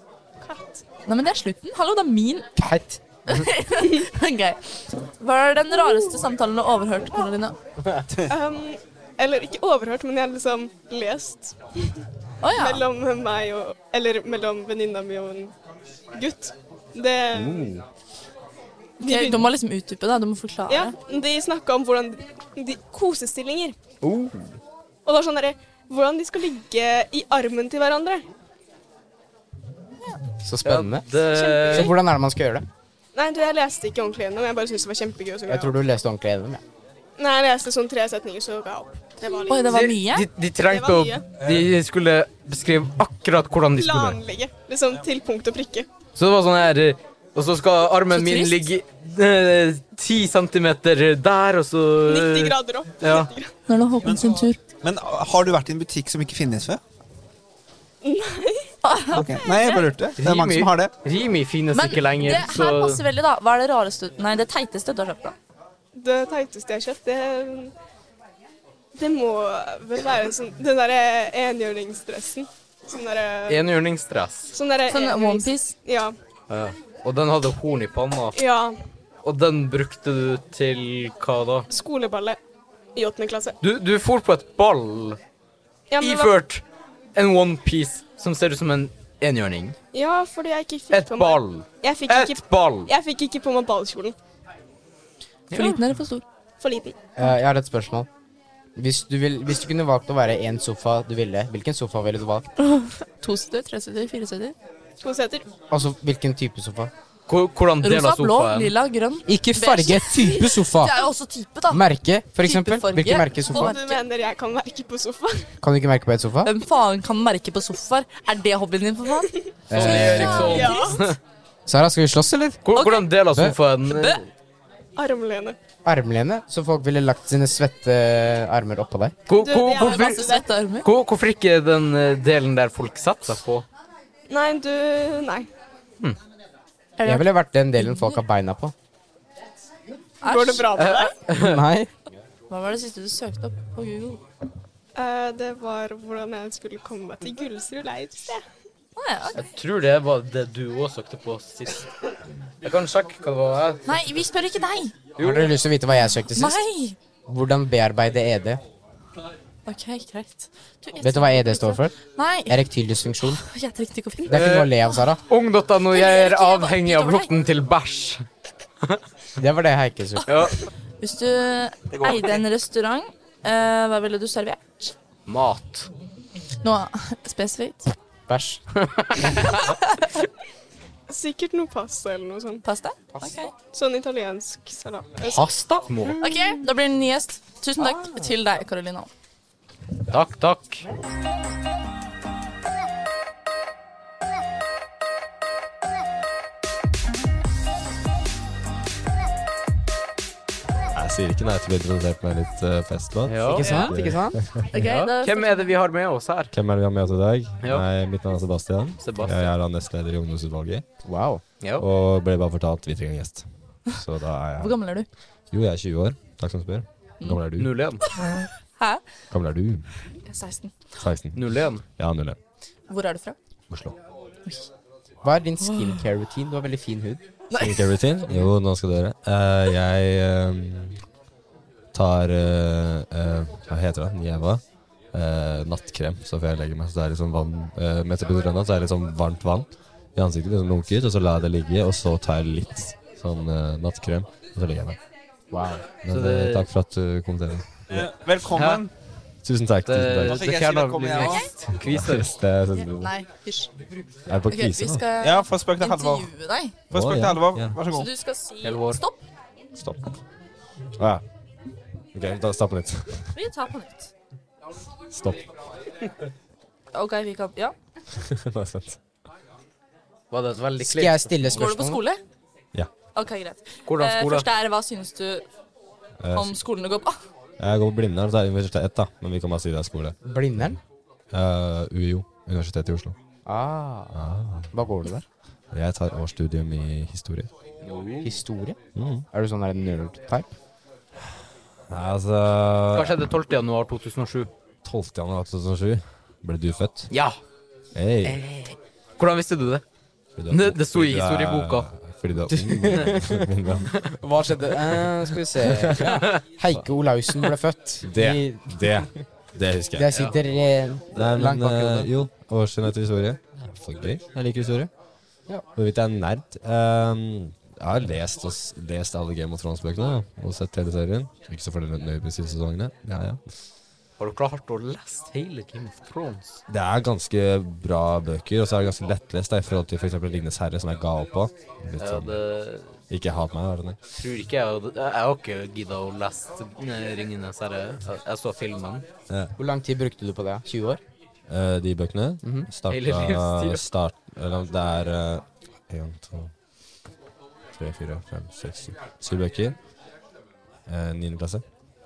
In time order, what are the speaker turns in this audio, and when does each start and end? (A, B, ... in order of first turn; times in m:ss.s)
0:00.4-0:00.8 A
0:01.1-0:02.5 B
0:02.6-0:03.0 C
0:03.3-0:07.6 B
0:08.3-0:15.5 A
0:12.4-0:12.8 B
0:16.1-0:17.7 A
0:17.4-0:17.8 D
0:19.0-0:21.0 B
0:19.0-0:19.6 A
0:20.7-0:23.8 A
0:24.0-0:24.6 E
0:25.0-0:28.2 A
0:30.4-0:32.7 C
0:30.6-0:31.9 E
0:31.3-0:31.9 A
0:33.1-0:35.7 A
0:35.5-0:36.6 C
0:37.2-0:41.3 A
0:39.4-0:40.3 B
0:39.6-0:44.2 E
0:43.7-0:45.9 A
0:46.2-0:53.3 E
0:48.1-0:48.7 B
0:52.0-0:53.5 A
0:53.7-0:54.6 B
0:54.0-0:56.8 F
0:58.0-0:58.7 A
0:58.8-0:59.8 B
0:59.1-1:00.9 F
0:59.4-0:59.9 A
1:00.2-1:03.0 E
1:01.7-1:05.4 B
1:05.9-1:07.7 A
1:09.0-1:13.7 A
1:13.5-1:14.6 E
1:14.5-1:16.2 A
1:14.9-1:15.8 B
1:16.5-1:18.4 E
1:18.3-1:18.8 A
1:19.2-1:21.7 E
1:21.7-1:22.4 A
1:23.0-1:23.6 A
1:23.6-1:25.2 E
1:25.9-1:26.4 A
1:26.0-1:26.6 E
1:27.2-1:29.8 E
1:29.9-1:34.2 A
1:30.9-1:32.9 E
1:35.5-1:35.8 E
1:35.5-1:36.2 B
1:36.6-1:37.1 A
1:37.2-1:38.1 C
1:38.8-1:42.5 C
1:42.6-1:44.6 B
1:45.0-1:45.5 A
1:45.7-1:46.9 C
1:47.3-1:48.7 E
1:47.8-1:51.8 B
1:49.3-1:51.0 C
1:51.7-1:53.7 C
1:52.4-1:54.0 B
1:53.4-1:55.5 A
1:55.6-1:56.5 C
1:56.4-2:00.9 B
1:59.2-1:59.6 A
1:59.7-2:00.5 C
1:59.7-2:01.2 E
2:00.4-2:01.2 A
2:01.7-2:02.6 C
2:02.6-2:04.3 E
2:02.8-2:03.1 B
2:03.3-2:03.6 C
2:03.9-2:04.2 B
2:05.0-2:05.6 A
2:05.8-2:09.2 C
2:09.3-2:10.2 E
2:09.3-2:10.5 A
2:09.7-2:10.9 B
2:10.8-2:13.7 E
2:14.3-2:15.5 A
2:17.0-2:18.2 B
2:17.0-2:18.7 C
2:20.2-2:21.0 B
2:20.2-2:21.2 A
2:20.8-2:21.6 E
2:21.3-2:21.9 C
2:22.5-2:24.2 B
2:25.0-2:28.4 A
2:29.0-2:29.4 B
2:29.4-2:31.9 E
2:32.6-2:33.8 E
2:33.9-2:35.0 B
2:35.2-2:35.6 E
2:35.2-2:36.6 C
2:35.9-2:37.0 B
2:37.3-2:38.6 C
2:39.7-2:42.6 B
2:41.0-2:43.4 C
2:43.2-2:44.3 B
2:44.2-2:45.2 C
2:44.3-2:44.7 E
2:45.3-2:48.3 E
2:45.9-2:47.3 B
2:49.4-2:50.5 C
2:50.3-2:50.6 E
2:51.0-2:54.9 B
2:52.0-2:52.3 F
2:55.3-2:55.9 E
2:56.6-2:57.9 B
2:58.3-2:58.6 C
2:59.5-3:00.0 B
3:01.1-3:02.6 A
3:02.6-3:03.5 B
3:03.7-3:05.4 A
3:05.2-3:06.2 E
3:06.2-3:09.1 B
3:10.1-3:10.8 E
3:20.9-3:24.7 D
3:23.3-3:24.4 C
3:23.3-3:23.8 E
3:23.6-3:23.9 B
3:24.7-3:25.8 B
3:24.8-3:26.5 E
3:26.5-3:30.8 D
3:29.0-3:29.5 E
3:31.0-3:31.4 C
3:31.8-3:34.8 D
3:34.6-3:35.1 B
3:35.5-3:37.7 D
3:37.6-3:38.0 E
3:38.0-3:39.0 B
3:39.3-3:39.9 D
3:40.2-3:40.8 B
3:41.0-3:42.4 D
3:41.3-3:41.8 E
3:42.9-3:43.4 B
3:43.7-3:44.0 D
3:45.2-3:47.2 C
3:45.6-3:46.0 B
3:47.5-3:47.8 B
3:47.6-3:51.0 D
3:51.9-4:05.0 D
4:05.5-4:05.8 C
4:06.0-4:08.1 D
4:06.1-4:06.7 E
4:07.9-4:08.9 F
4:08.5-4:08.8 E
4:09.4-4:10.4 D
4:09.9-4:12.3 E
4:10.2-4:11.5 F
4:11.2-4:11.5 B
4:11.8-4:13.2 D
4:12.8-4:13.7 B
4:14.3-4:15.1 D
4:14.5-4:16.8 B
4:15.2-4:16.4 F
4:16.9-4:17.8 D
4:16.9-4:18.1 F
4:17.9-4:19.2 B
4:18.6-4:19.0 E
4:19.8-4:20.1 D
4:21.0-4:21.2 D
4:22.1-4:23.4 D
4:23.3-4:24.1 B
4:25.1-4:25.5 D
4:26.9-4:27.8 B
4:28.1-4:29.0 D
4:30.3-4:31.6 E
4:30.8-4:32.0 C
4:31.5-4:32.2 B
4:33.2-4:35.4 B
4:33.9-4:34.5 E
4:36.2-4:36.6 D
4:36.3-4:37.2 B
4:37.6-4:40.2 D
4:40.2-4:40.8 C
4:41.3-4:43.2 D
4:43.5-4:44.2 C
4:44.1-4:44.7 D
4:44.7-4:45.3 C
4:45.7-4:47.5 D
4:47.8-4:48.4 E
4:48.2-4:48.8 C
4:49.0-4:49.2 D
4:49.3-4:50.5 C
4:51.9-4:53.3 D
4:52.9-4:54.5 E
4:54.8-4:57.1 D
4:57.1-4:57.4 E
4:57.9-4:58.4 D
4:58.2-4:59.8 E
5:00.4-5:03.9 D
5:00.5-5:01.9 E
5:02.5-5:03.5 C
5:04.2-5:09.1 C
5:05.6-5:06.2 D
5:08.0-5:10.1 D
5:10.0-5:12.1 C
5:10.1-5:10.4 E
5:11.1-5:14.9 D
5:15.7-5:23.4 D
5:24.2-5:26.6 E
5:26.7-5:32.4 D
5:32.0-5:32.9 E
5:33.1-5:34.0 D
5:34.2-5:39.0 E
5:39.3-5:39.6 D
5:39.6-5:41.0 C
5:41.5-5:46.5 D
5:42.4-5:42.7 C
5:42.9-5:43.8 E
5:47.8-5:49.8 D
5:50.9-5:51.6 D